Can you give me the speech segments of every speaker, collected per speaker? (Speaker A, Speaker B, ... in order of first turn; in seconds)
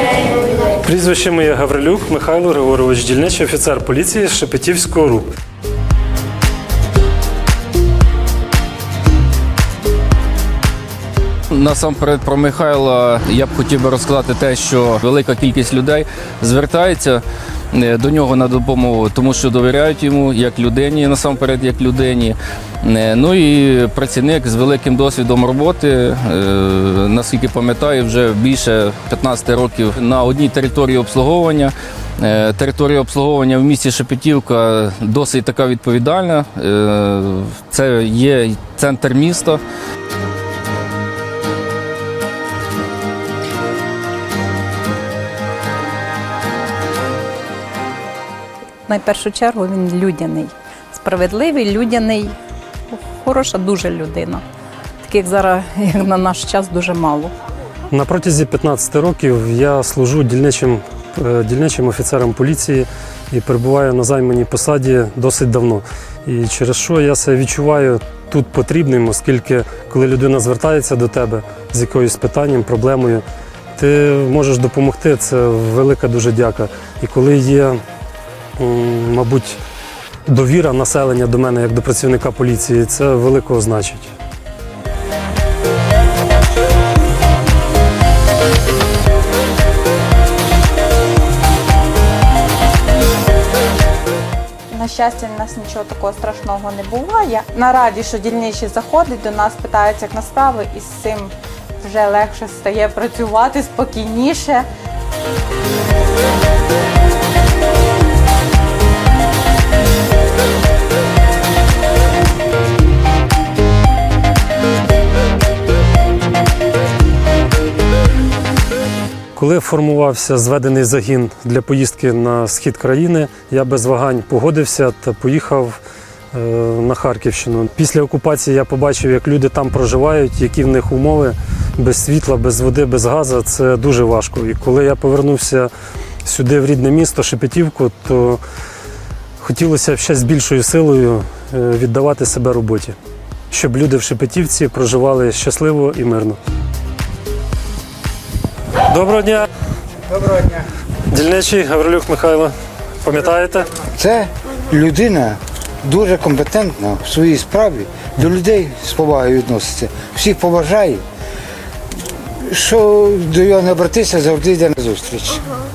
Speaker A: 0.8-5.3, 57.9-73.2, 73.8-77.8, 78.6-79.6, 80.3-84.1, 119.3-125.8, 126.3-135.7, 136.2-138.4, 139.4-143.0, 143.5-146.4, 148.9-149.5, 151.1-153.8
Speaker B: 11.5-39.6
Speaker C: 48.9-52.3, 52.9-54.4, 55.0-57.3
Speaker D: 94.7-104.7
Speaker E: 150.2-150.6, 153.9-161.0, 162.4-165.6